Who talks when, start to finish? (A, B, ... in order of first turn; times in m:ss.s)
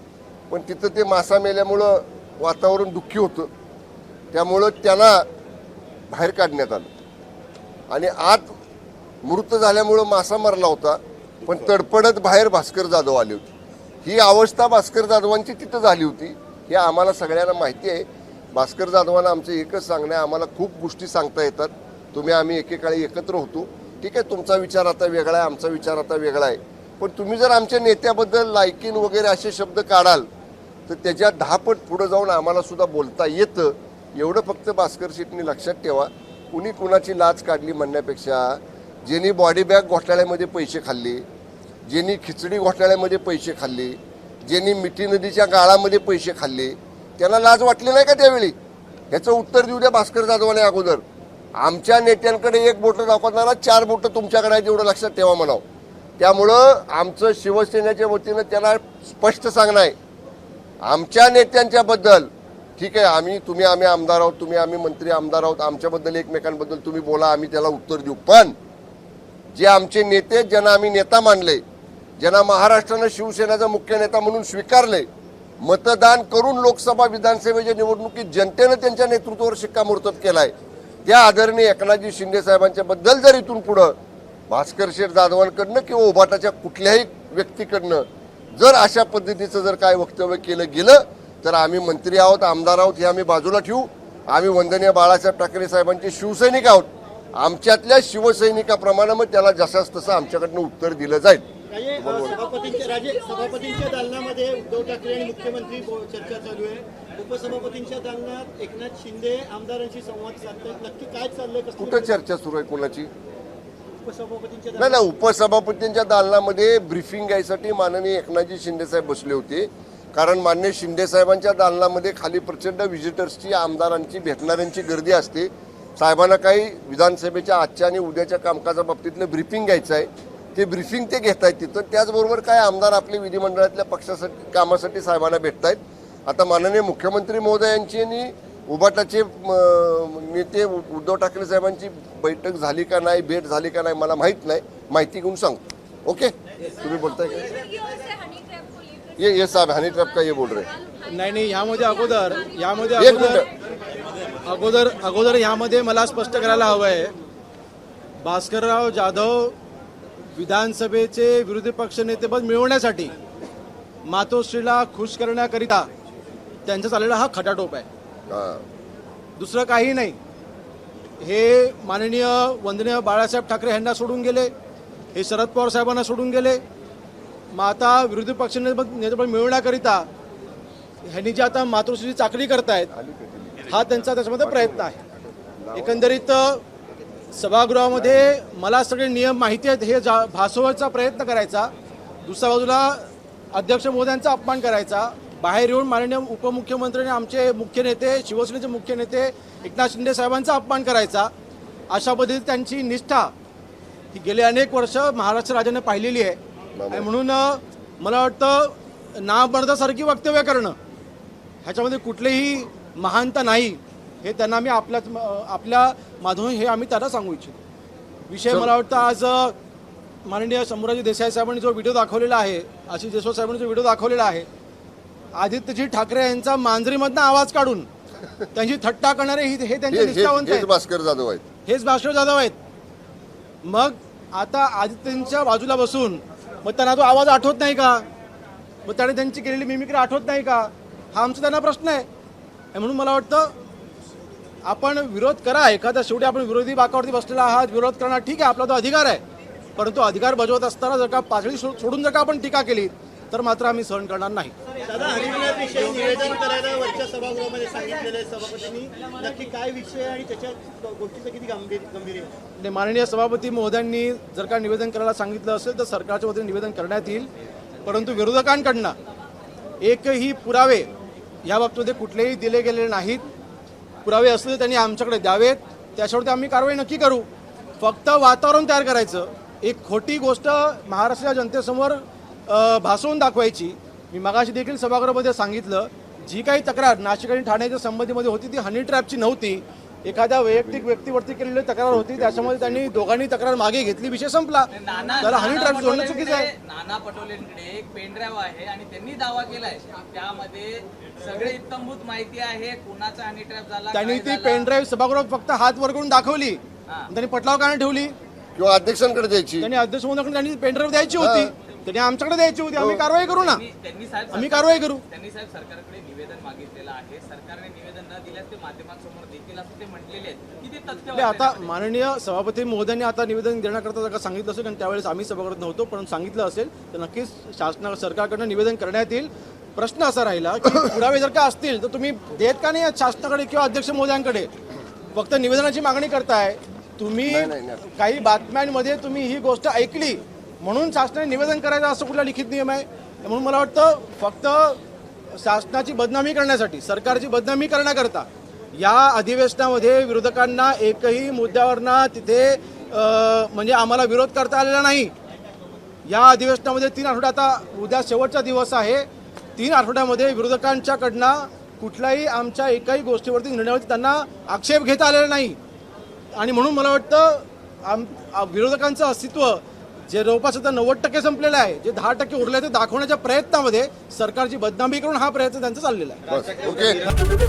0:00.5-0:03.5 A
0:04.3-0:05.2 A
0:06.1-0:06.9 A
0:07.9-0:08.6 A
0:09.2-0:13.5 A
0:14.0-0:30.3 A
0:30.9-0:41.2 A
0:41.9-0:48.6 A
0:49.1-0:51.0 A
0:51.6-0:55.6 A
0:56.2-1:00.0 A
1:00.8-1:08.6 A
1:09.5-1:11.6 A
1:12.2-1:15.1 A
1:15.6-1:20.5 A
1:21.0-1:23.9 A
1:24.5-1:41.4 A
1:41.7-1:52.2 B
1:42.0-1:42.4 A
1:51.8-1:53.1 A
1:54.0-1:55.0 B
1:54.8-2:27.6 A
2:29.2-2:30.7 A
2:31.1-2:33.4 C
2:33.0-2:33.5 A
2:34.4-2:37.1 C
2:38.2-2:39.6 C
2:40.4-2:43.1 C
2:44.0-2:45.9 C
2:46.7-2:47.9 C
2:48.3-2:48.6 A
2:49.4-2:50.2 C
2:51.2-2:54.5 C
2:55.1-2:56.6 C
2:57.5-3:00.1 C
3:01.0-3:02.9 C
3:02.9-3:03.9 A
3:03.6-3:05.0 C
3:04.4-3:06.3 A
3:05.8-3:06.6 C
3:07.3-3:11.7 C
3:07.9-3:08.3 A
3:12.2-3:21.3 C
3:21.9-3:23.3 C
3:24.1-3:26.4 C
3:26.8-3:27.1 A
3:26.9-3:30.8 C
3:31.6-3:37.6 C
3:38.3-3:39.6 C
3:38.5-3:38.8 A
3:40.2-3:44.5 C
3:45.4-3:47.9 C
3:48.5-3:50.7 C
3:49.9-3:51.4 A
3:51.7-3:52.6 C
3:53.6-3:58.0 C
3:58.8-4:02.1 C
4:02.7-4:03.5 C
4:04.6-4:09.2 C
4:09.8-4:14.6 C
4:14.8-4:22.3 B
4:22.6-4:27.3 C
4:27.8-4:29.0 C
4:29.8-4:30.9 C
4:31.4-4:33.2 C
4:34.0-4:37.3 C
4:37.8-4:56.5 C
4:50.5-4:51.2 A
4:51.9-4:53.1 A
4:54.7-5:04.7 D
5:03.9-5:08.2 C
5:08.6-5:09.7 A
5:09.6-5:13.6 C
5:11.2-5:11.5 A
5:12.8-5:13.0 A
5:13.4-5:21.7 D
5:14.3-5:15.0 C
5:21.1-5:34.5 C
5:35.1-5:44.8 C
5:37.3-5:37.8 A
5:45.3-5:55.1 C
5:56.0-6:05.6 C
6:06.4-6:16.2 C
6:16.3-6:17.1 A
6:16.5-6:16.8 D